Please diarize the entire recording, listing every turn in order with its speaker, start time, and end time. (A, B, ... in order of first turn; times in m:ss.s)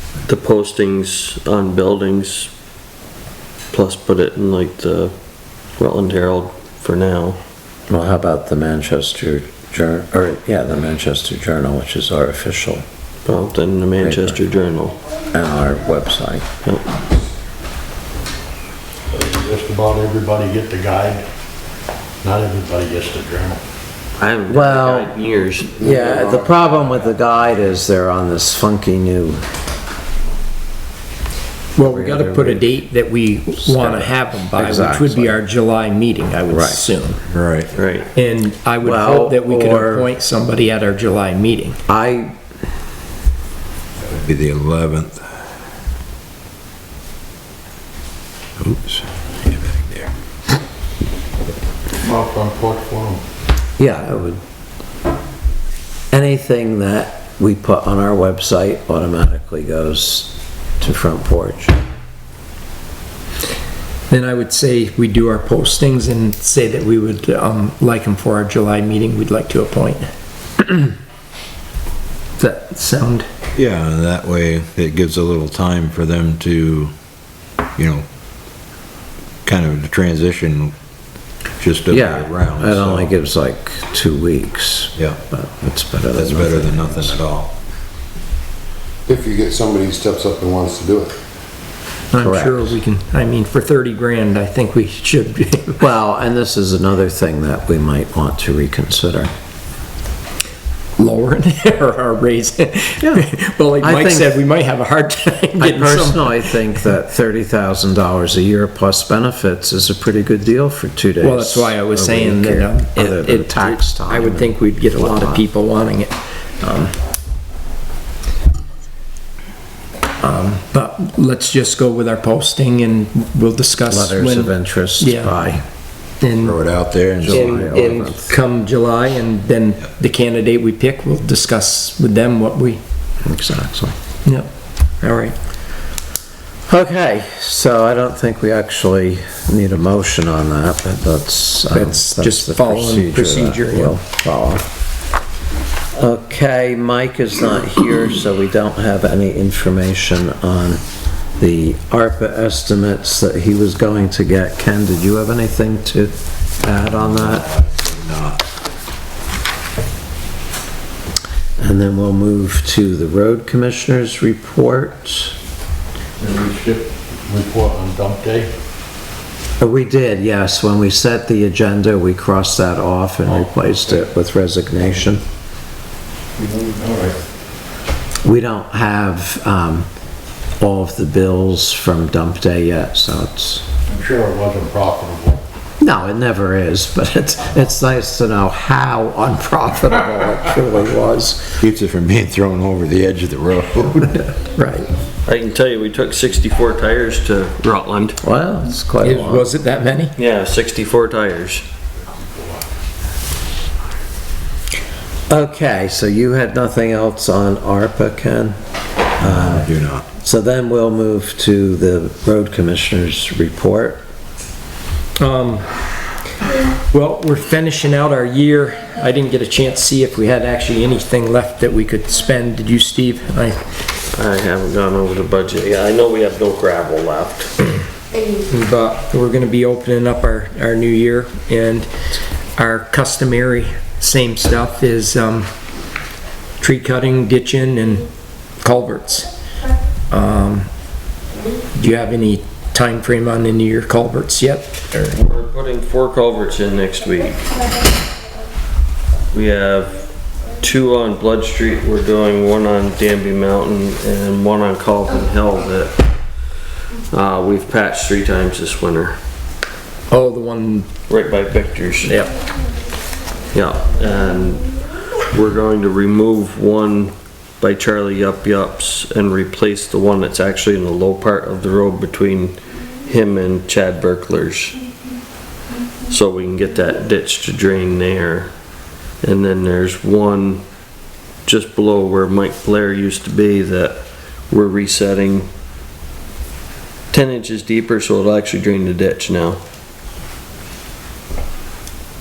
0:00.2-0:02.5 A
0:03.7-0:05.1 A
0:05.8-0:07.4 A
0:07.9-0:12.8 B
0:13.2-0:15.0 A
0:14.0-0:14.4 B
0:15.3-0:16.8 B
0:19.1-0:21.2 C
0:22.2-0:23.6 C
0:24.2-0:25.8 A
0:24.5-0:25.2 B
0:25.8-0:29.4 B
0:25.8-0:27.0 D
0:31.7-0:37.2 E
0:31.8-0:32.8 B
0:33.6-0:35.4 B
0:36.5-0:36.8 B
0:37.3-0:37.7 F
0:37.7-0:38.1 A
0:38.1-0:41.8 E
0:38.8-0:40.1 B
0:41.9-0:42.4 B
0:44.0-0:45.2 F
0:48.6-0:50.1 F
0:52.0-0:53.2 C
0:53.8-0:54.4 B
0:56.1-1:01.8 B
1:04.1-1:10.1 E
1:10.6-1:10.9 E
1:12.4-1:13.2 E
1:13.5-1:16.9 F
1:17.8-1:18.0 F
1:19.4-1:20.7 F
1:21.6-1:23.1 F
1:21.9-1:27.2 B
1:26.1-1:27.5 F
1:29.1-1:31.2 D
1:32.1-1:35.9 E
1:32.2-1:32.8 B
1:35.8-1:39.3 B
1:41.0-1:46.8 E
1:43.0-1:43.3 B
1:43.8-1:44.4 B
1:45.6-1:55.4 B
1:51.2-1:56.9 E
2:00.2-2:05.4 E
2:03.9-2:05.6 B
2:06.2-2:06.6 E
2:06.4-2:07.6 F
2:07.2-2:08.4 B
2:07.3-2:12.8 E
2:13.2-2:13.9 B
2:14.2-2:14.5 E
2:15.0-2:15.3 E
2:16.7-2:24.7 B
2:21.7-2:24.0 E
2:25.9-2:30.8 B
2:31.4-2:37.5 B
2:36.9-2:38.4 F
2:41.6-2:45.4 B
2:46.2-2:48.5 C
2:49.6-2:55.2 B
2:56.4-2:56.8 D
2:56.7-2:57.1 C
2:58.2-2:59.9 B
3:00.6-3:03.6 B
3:03.9-3:05.4 C
3:05.8-3:11.6 B
3:11.6-3:14.3 F
3:14.5-3:14.9 E
3:15.2-3:18.2 A
3:18.2-3:19.5 B
3:19.0-3:20.2 E
3:20.2-3:21.6 A
3:25.3-3:28.6 B
3:29.2-3:30.1 F
3:29.2-3:34.0 B
3:35.2-3:35.9 E
3:36.9-3:43.6 E
3:44.1-3:47.5 A
3:48.5-3:51.9 E
3:52.6-3:55.5 E
3:56.6-3:59.3 E
4:00.1-4:00.7 E
4:01.7-4:05.1 E
4:05.0-4:07.6 A
4:09.3-4:16.1 A
4:17.1-4:19.2 A
4:20.1-4:20.9 E
4:21.1-4:22.2 A
4:22.0-4:22.3 E
4:23.5-4:34.8 A
4:36.1-4:38.5 A
4:39.2-4:40.6 A
4:41.4-4:45.5 A
4:47.1-4:49.6 A